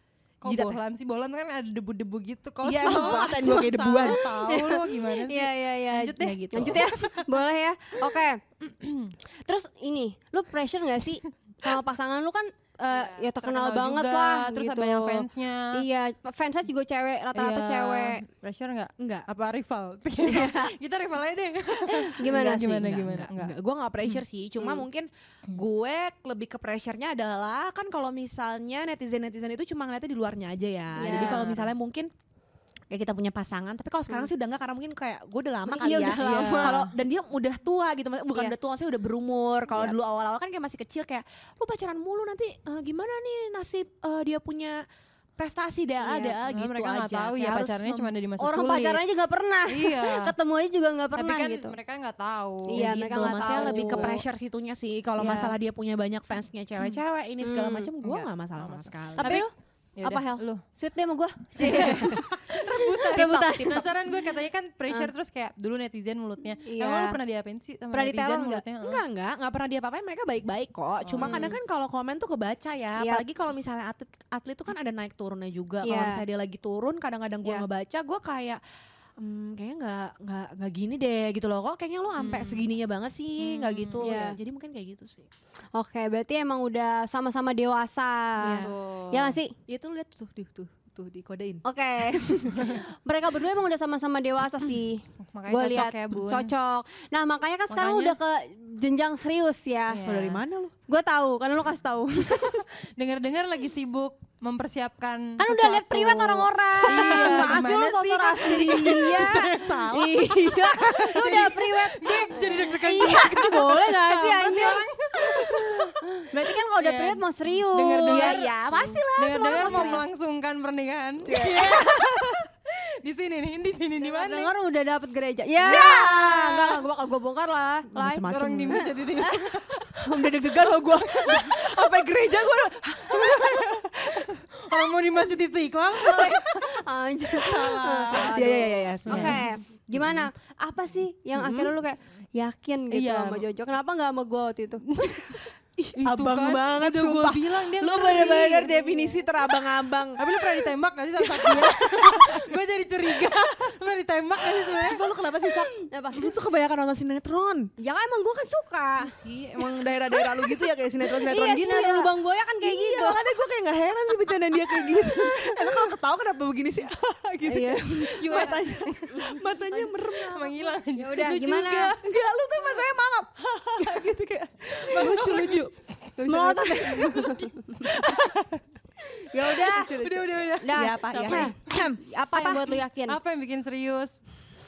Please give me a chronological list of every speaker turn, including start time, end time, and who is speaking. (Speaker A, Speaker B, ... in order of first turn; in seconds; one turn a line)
Speaker A: 0.4-7.3
Speaker B: 0.4-0.8
Speaker B: 2.6-4.2
Speaker C: 2.9-8.4
Speaker B: 6.1-6.9
Speaker A: 8.6-9.1
Speaker C: 9.4-18.2
Speaker A: 12.9-15.8
Speaker A: 17.4-23.6
Speaker B: 19.0-19.3
Speaker C: 20.2-20.7
Speaker C: 21.9-22.8
Speaker B: 22.2-32.1
Speaker C: 31.0-31.6
Speaker A: 31.1-31.6
Speaker B: 32.9-44.8
Speaker C: 35.7-36.9
Speaker B: 45.4-48.1
Speaker A: 46.2-49.0
Speaker C: 48.4-51.7
Speaker A: 49.7-50.3
Speaker A: 51.1-54.2
Speaker C: 52.7-54.2
Speaker B: 52.7-59.4
Speaker A: 55.2-55.6
Speaker C: 57.4-57.9
Speaker A: 58.6-59.4
Speaker C: 59.2-59.5
Speaker A: 60.0-60.6
Speaker C: 60.0-64.2
Speaker B: 61.6-62.6
Speaker A: 61.6-69.0
Speaker B: 63.1-63.8
Speaker C: 66.6-67.2
Speaker C: 67.9-68.6
Speaker B: 68.8-78.6
Speaker A: 71.0-71.5
Speaker C: 71.2-71.6
Speaker C: 73.0-73.2
Speaker C: 75.8-76.2
Speaker B: 79.2-85.3
Speaker A: 83.7-84.0
Speaker C: 84.0-84.4
Speaker C: 85.8-89.5
Speaker B: 88.4-88.8
Speaker A: 88.5-89.4
Speaker B: 89.7-92.7
Speaker C: 91.7-100.0
Speaker A: 95.3-96.5
Speaker A: 97.7-98.2
Speaker A: 99.9-100.4
Speaker B: 100.0-100.7
Speaker C: 100.9-102.6
Speaker A: 103.0-110.1
Speaker C: 105.4-120.0
Speaker B: 105.5-106.3
Speaker B: 106.8-111.7
Speaker A: 111.2-113.5
Speaker B: 112.3-114.8
Speaker A: 114.3-115.9
Speaker A: 116.5-118.5
Speaker B: 118.1-120.0
Speaker A: 119.2-122.1
Speaker C: 121.2-121.8
Speaker B: 121.2-122.5
Speaker A: 123.0-124.5
Speaker C: 124.0-126.7
Speaker B: 125.6-128.9
Speaker A: 125.6-126.0
Speaker C: 127.9-129.6
Speaker A: 128.2-129.7
Speaker B: 129.8-134.9
Speaker C: 131.1-131.5
Speaker A: 133.1-133.8
Speaker A: 134.5-136.6
Speaker C: 136.0-145.2
Speaker B: 136.1-136.4
Speaker A: 137.3-138.5
Speaker B: 138.2-139.5
Speaker A: 139.1-139.4
Speaker B: 141.3-141.7
Speaker A: 142.9-143.5
Speaker A: 144.9-149.0
Speaker B: 145.8-150.2
Speaker C: 148.5-149.2
Speaker A: 150.2-155.0
Speaker B: 151.2-152.6
Speaker B: 154.4-157.7
Speaker C: 155.4-156.3
Speaker C: 157.8-159.1
Speaker B: 159.0-170.8
Speaker C: 160.1-163.2
Speaker C: 164.7-166.0
Speaker C: 167.5-169.9
Speaker A: 168.2-169.3
Speaker A: 170.1-172.0
Speaker C: 170.9-172.0
Speaker B: 171.5-178.6
Speaker A: 174.9-175.7
Speaker C: 176.3-178.1
Speaker C: 179.2-183.2
Speaker A: 179.6-181.5
Speaker B: 180.7-182.6
Speaker A: 183.1-184.2